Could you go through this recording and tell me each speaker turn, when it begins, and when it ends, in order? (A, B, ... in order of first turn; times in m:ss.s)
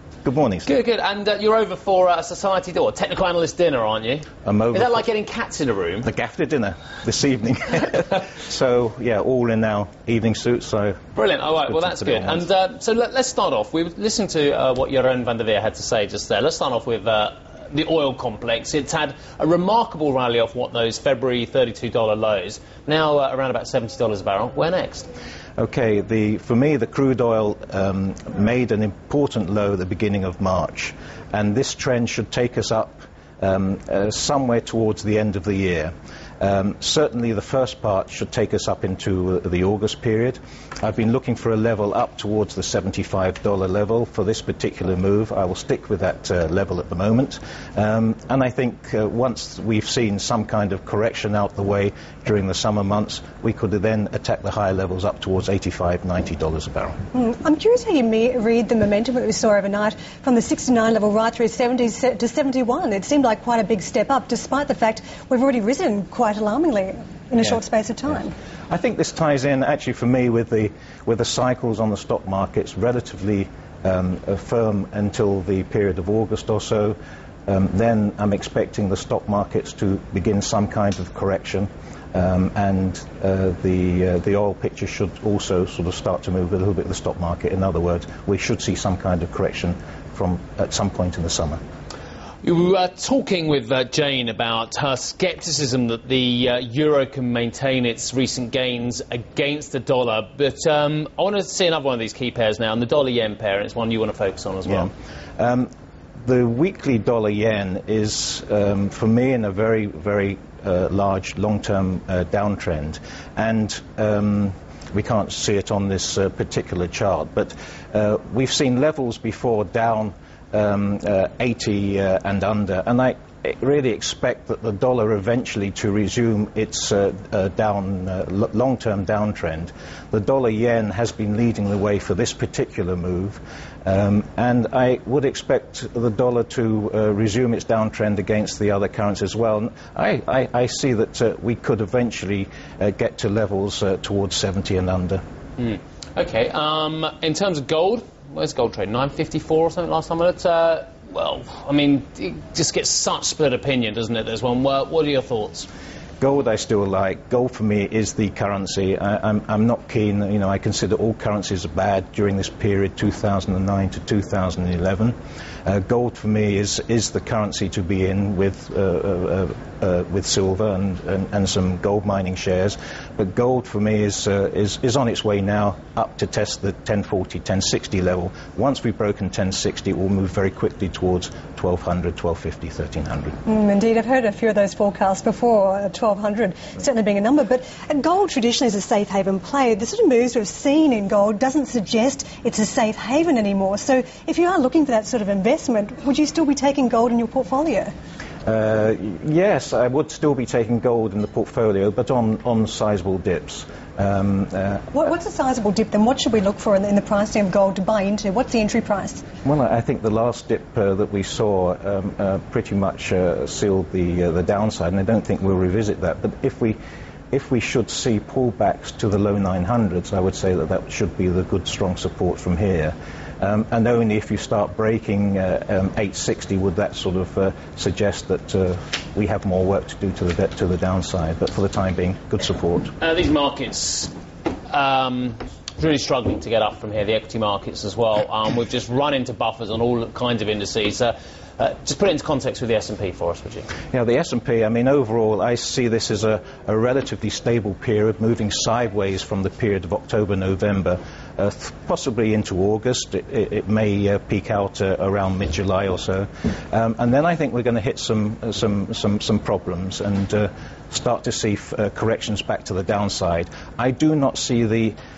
0:00.2-0:00.7 A
0:00.6-0:06.1 B
0:04.4-0:05.0 A
0:06.0-0:11.0 A
0:11.2-0:25.1 B
0:11.7-0:12.4 A
0:25.6-0:57.0 A
0:57.1-1:08.3 C
1:08.7-1:31.6 A
1:32.4-1:44.9 B
1:44.6-1:45.7 A
1:46.2-2:25.2 A
2:25.6-2:35.7 B
2:36.2-3:03.4 A
3:03.4-3:17.9 C
3:18.4-3:24.9 A
3:24.9-3:29.2 C
3:29.4-3:36.8 A
3:37.3-3:52.9 A
3:53.0-3:54.1 B
3:54.7-4:03.7 B
4:03.9-4:25.0 A